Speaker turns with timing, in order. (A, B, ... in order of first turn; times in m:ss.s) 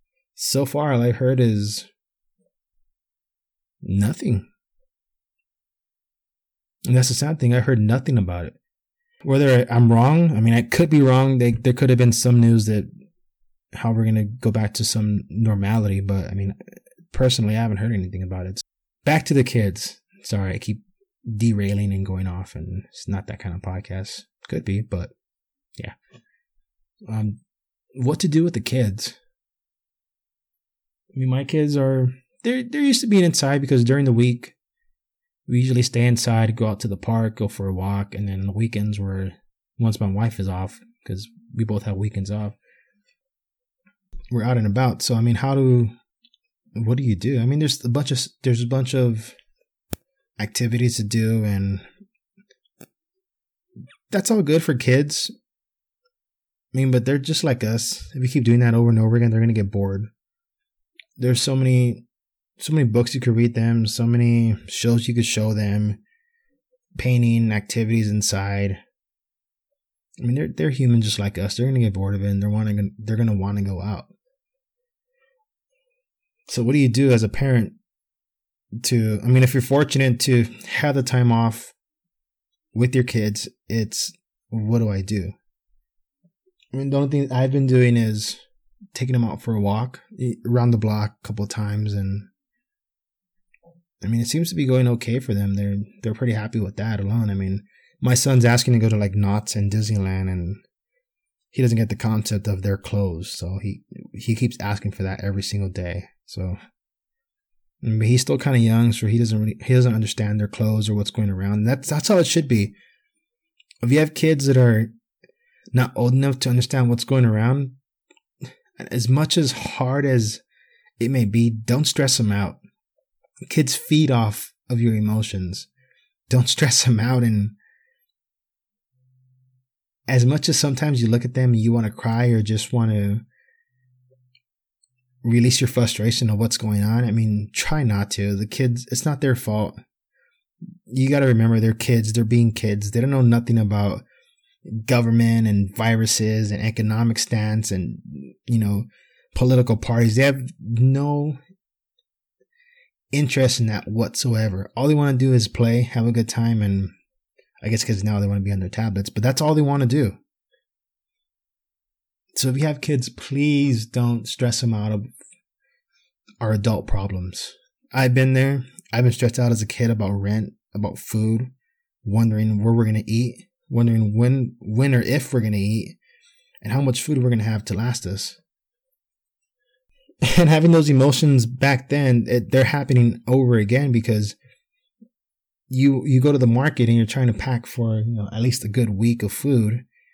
0:00.4-0:01.9 A
0:03.8-0:04.5 A
0:06.9-0:08.6 A
0:09.2-0:12.9 A
0:13.8-0:16.6 A
0:17.1-0:25.1 A
0:27.1-0:27.4 A
0:28.0-0:29.2 A
0:31.1-0:34.6 A
0:35.5-0:42.6 A
0:44.3-0:45.9 A
0:46.8-0:49.4 A
0:50.4-0:51.8 A
0:54.1-0:55.3 A
0:56.7-1:00.1 A
1:01.2-1:02.0 A
1:02.6-1:06.0 A
1:07.0-1:08.8 A
1:10.2-1:14.1 A
1:16.5-1:17.8 A
1:18.8-1:21.7 A
1:22.7-1:25.4 A
1:26.7-1:28.4 A
1:28.9-1:32.3 A
1:34.0-1:40.6 A
1:41.5-1:46.6 A
1:47.8-1:52.8 A
1:53.8-1:54.9 A
1:55.7-1:57.8 A
1:58.8-2:00.4 A
2:01.0-2:02.6 A
2:03.5-2:05.7 A
2:06.3-2:07.6 A
2:10.1-2:13.2 A
2:15.2-2:19.8 A
2:20.9-2:24.0 A
2:24.7-2:31.4 A
2:33.1-2:37.0 A
2:37.6-2:40.2 A
2:42.4-2:45.1 A
2:46.4-2:51.5 A
2:52.0-2:56.0 A
2:56.6-2:58.4 A
3:00.2-3:04.4 A
3:05.7-3:09.8 A